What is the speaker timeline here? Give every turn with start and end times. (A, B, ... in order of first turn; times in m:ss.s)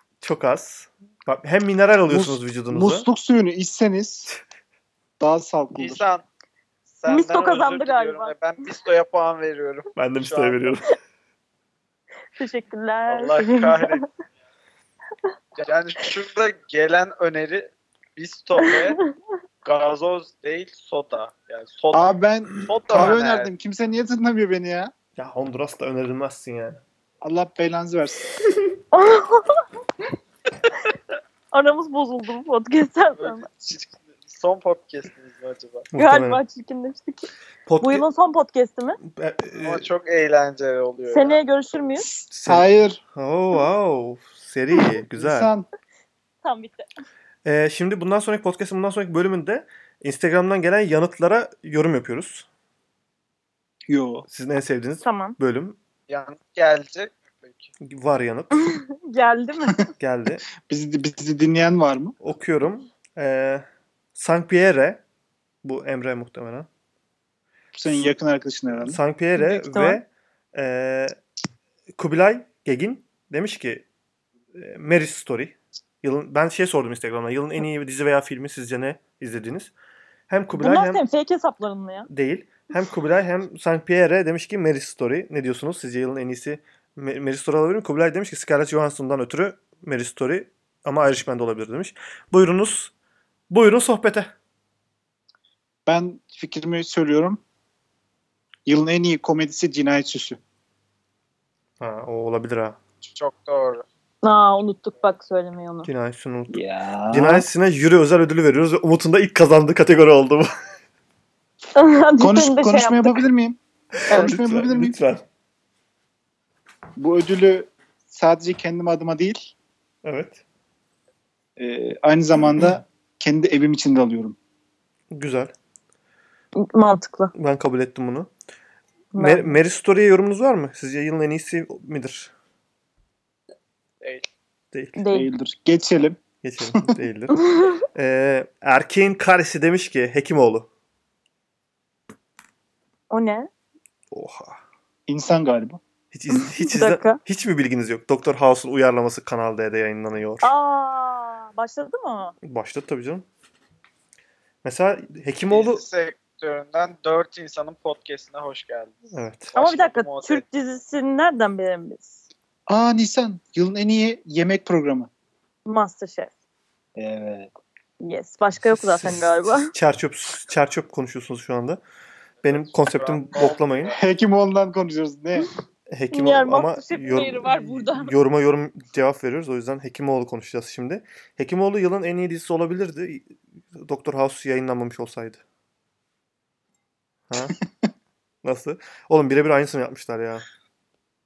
0:00.2-0:03.1 A
0:02.1-0:04.3 B
0:05.2-0:06.0 B
0:05.7-0:06.2 C
0:06.9-0:10.8 C
0:07.1-0:08.3 D
0:10.0-0:10.9 A
0:12.4-0:14.0 D
0:13.1-0:14.0 C
0:15.6-0:19.0 C
0:18.6-0:18.9 D
0:19.6-0:23.5 C
0:21.9-0:24.9 B
0:25.2-0:26.8 A
0:27.2-0:28.3 B
0:28.9-0:29.6 D
0:31.5-0:33.4 D
0:33.2-0:35.9 C
0:35.9-0:36.4 A
0:35.9-0:37.3 D
0:37.6-0:38.0 A
0:37.8-0:39.0 D
0:39.0-0:39.9 A
0:39.6-0:41.4 C
0:41.1-0:42.1 D
0:42.0-0:43.0 B
0:42.3-0:45.5 A
0:45.1-0:45.7 B
0:46.4-0:46.9 D
0:47.4-0:52.5 A
0:53.9-0:54.2 B
0:54.3-0:55.8 A
0:55.0-0:55.4 D
0:56.1-0:57.7 C
0:57.8-0:58.7 A
0:58.6-0:59.8 D
1:00.0-1:00.4 A
1:00.6-1:02.1 B
1:02.2-1:05.0 A
1:05.6-1:06.7 A
1:07.7-1:09.0 B
1:08.8-1:11.2 A
1:09.4-1:10.0 D
1:12.0-1:13.8 A
1:14.5-1:19.7 A
1:20.3-1:21.0 A
1:20.6-1:22.1 D
1:22.1-1:32.9 A
1:33.5-1:34.3 A
1:35.8-1:37.4 B
1:38.6-1:40.4 B
1:41.8-1:42.8 A
1:43.0-1:43.8 C
1:44.2-1:45.9 D
1:45.8-1:50.5 A
1:46.5-1:47.4 B
1:51.7-1:53.2 D
1:52.2-1:53.6 B
1:54.0-1:55.2 A
1:54.1-1:54.4 D
1:54.1-1:55.0 B
1:57.0-1:59.5 B
2:00.0-2:00.4 A
2:01.6-2:04.4 B
2:05.1-2:05.5 A
2:06.6-2:07.3 D
2:07.3-2:08.3 A
2:09.1-2:09.6 D
2:09.2-2:12.3 A
2:14.0-2:14.3 C
2:14.7-2:15.0 A
2:15.0-2:15.3 D
2:15.1-2:16.2 B
2:16.4-2:17.4 A
2:17.4-2:17.8 D
2:17.9-2:20.7 A
2:23.1-2:23.5 D
2:24.1-2:24.6 A
2:25.1-2:25.8 B
2:26.1-2:30.5 A
2:26.4-2:27.2 D
2:30.4-2:32.3 D
2:32.4-2:33.2 A
2:34.6-2:35.8 A
2:35.5-2:39.0 C
2:39.1-2:39.5 A
2:39.5-2:40.4 C
2:39.5-2:42.2 D
2:42.7-2:45.1 B
2:45.6-2:46.3 D
2:47.0-2:47.5 B
2:48.0-2:49.7 D
2:48.6-2:51.8 A
2:52.4-2:54.0 C
2:52.4-2:53.9 A
2:53.9-2:55.5 B
2:55.9-3:05.4 A
2:56.1-2:58.1 D
3:07.3-3:07.6 A
3:08.4-3:10.4 A